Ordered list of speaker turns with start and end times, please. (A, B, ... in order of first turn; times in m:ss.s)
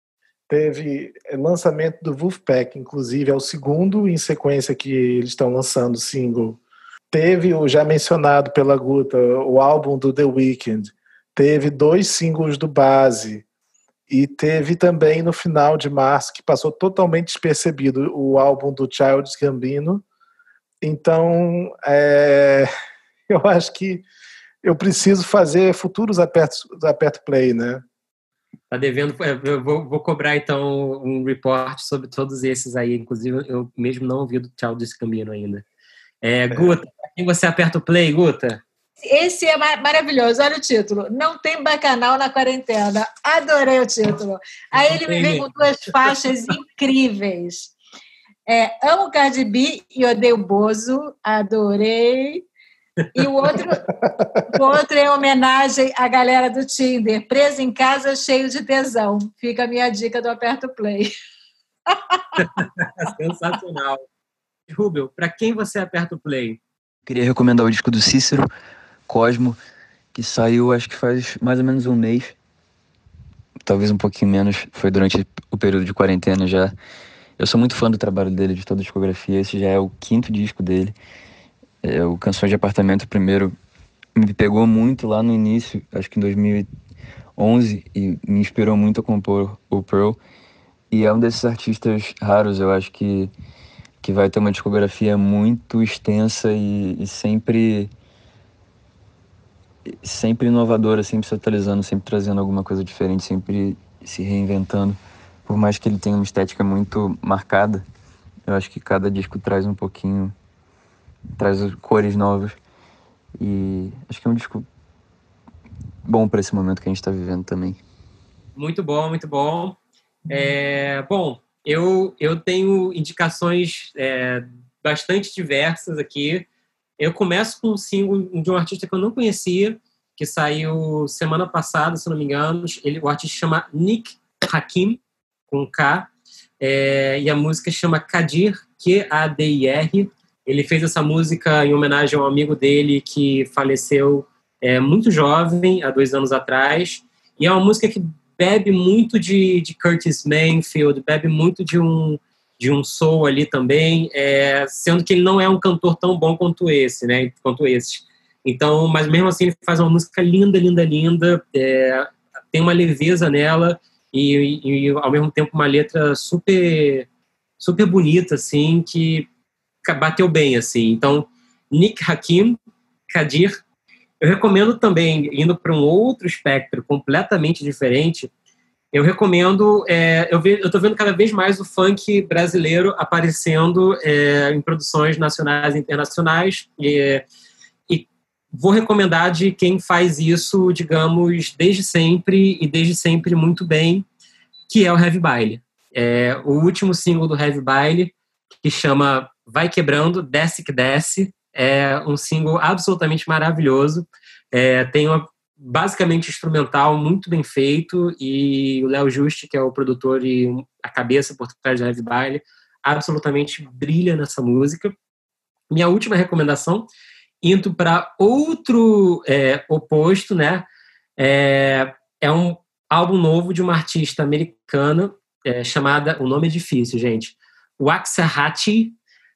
0:00.5-0:06.6 A
0:07.1-0:13.4 A
0:14.1-0:20.0 A
0:20.8-0:22.7 A
0:23.3-0:24.0 A
0:24.6-0:27.8 A
0:28.7-0:35.6 B
0:36.2-0:38.6 B
0:39.1-0:47.7 C
0:44.7-0:46.5 B
0:48.5-0:52.5 C
0:53.1-0:53.8 C
0:53.2-0:53.6 B
0:54.5-1:01.1 C
1:01.9-1:02.5 C
1:02.4-1:04.0 B
1:04.7-1:06.6 B
1:07.0-1:08.4 D
1:09.1-1:09.6 D
1:10.1-1:12.4 D
1:13.6-1:16.7 D
1:17.4-1:20.9 D
1:21.8-1:23.5 D
1:24.1-1:26.7 D
1:27.4-1:30.2 D
1:30.9-1:33.3 D
1:34.0-1:37.9 D
1:39.9-1:47.8 D
1:48.4-1:50.3 D
1:51.4-1:52.6 D
1:53.4-1:54.6 D
1:56.0-1:57.8 D
1:58.6-1:59.8 B
2:00.3-2:06.5 B
2:07.0-2:16.1 B
2:16.6-2:47.1 B
2:47.6-2:49.3 B
2:49.8-2:52.6 B
2:53.1-2:53.6 B
2:54.2-2:58.3 B
2:58.9-3:07.2 B
3:07.9-3:14.0 B
3:14.7-3:34.9 B
3:35.7-3:36.9 B
3:37.4-3:40.6 B
3:41.2-3:49.0 B